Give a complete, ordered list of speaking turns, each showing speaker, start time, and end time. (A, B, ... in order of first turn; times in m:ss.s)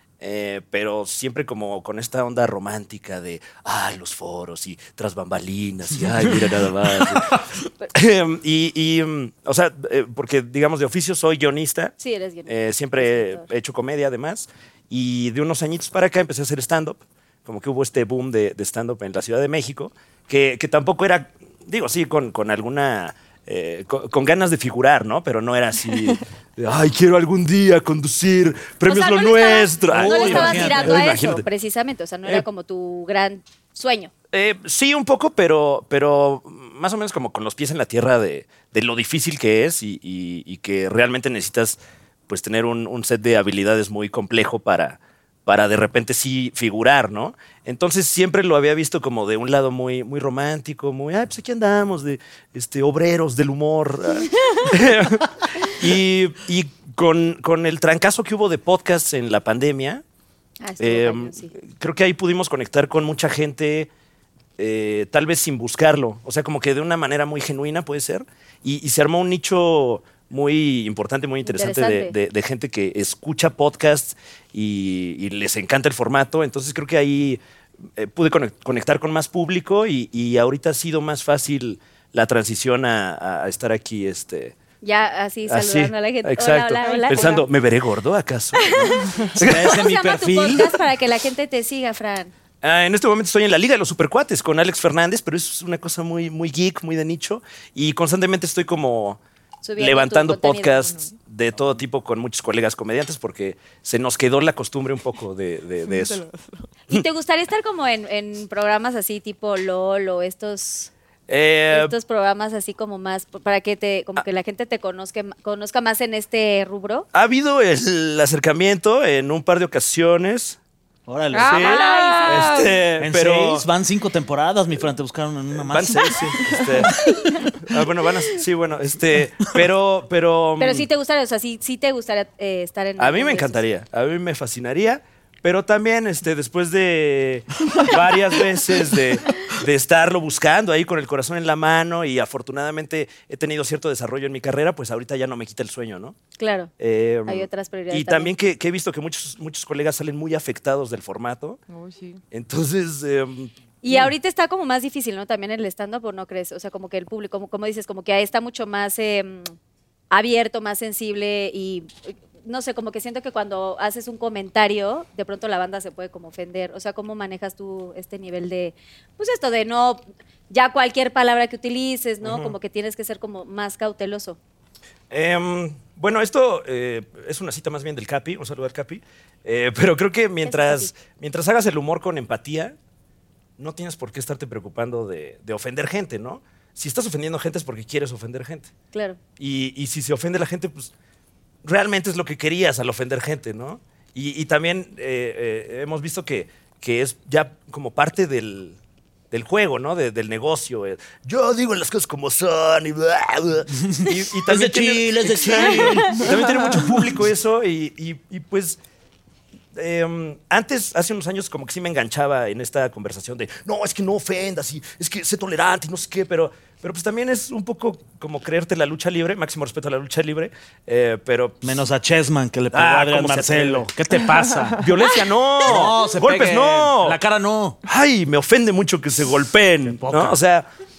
0:00.2-0:07.4 A
0:06.0-0:07.4 B
0:07.9-0:11.9 A
0:12.0-0:13.5 C
0:12.5-0:31.5 A
0:28.9-0:34.1 C
0:29.9-0:31.0 B
0:34.3-1:00.0 A
1:00.6-1:01.5 C
1:00.8-1:03.9 A
1:04.6-1:17.4 A
1:11.4-1:12.1 C
1:18.0-1:24.6 A
1:24.8-1:27.4 C
1:25.5-1:29.7 A
1:26.8-1:27.4 D
1:28.6-1:29.1 C
1:29.4-1:30.7 B
1:29.7-1:32.3 C
1:32.6-1:39.2 A
1:39.6-1:41.0 C
1:39.8-1:46.2 A
1:45.9-1:46.6 D
1:46.9-1:50.9 C
1:51.3-1:51.9 A
1:51.7-1:57.1 C
1:57.1-2:00.6 A
2:01.1-2:01.7 B
2:01.3-2:02.7 D
2:01.4-2:03.7 A
2:01.5-2:02.6 C
2:03.0-2:06.6 B
2:05.6-2:07.0 A
2:07.6-2:10.9 A
2:10.6-2:13.6 C
2:13.0-2:26.2 A
2:26.4-2:26.7 C
2:26.8-2:31.6 A
2:27.3-2:28.3 C
2:31.7-2:32.2 D
2:32.3-2:34.1 A
2:33.8-2:39.6 C
2:40.1-2:54.4 C
2:52.2-2:52.5 A
2:55.1-3:02.8 A
3:00.4-3:00.9 C
3:03.6-3:08.7 A
3:08.9-3:09.2 C
3:09.4-3:10.9 A
3:11.6-3:18.8 A
3:19.3-3:28.8 A
3:23.8-3:27.1 B
3:29.8-3:41.8 A
3:41.6-3:44.9 B
3:42.7-3:43.9 A
3:44.8-3:47.2 A
3:45.6-3:47.8 B
3:47.9-3:50.7 A
3:49.8-3:50.4 B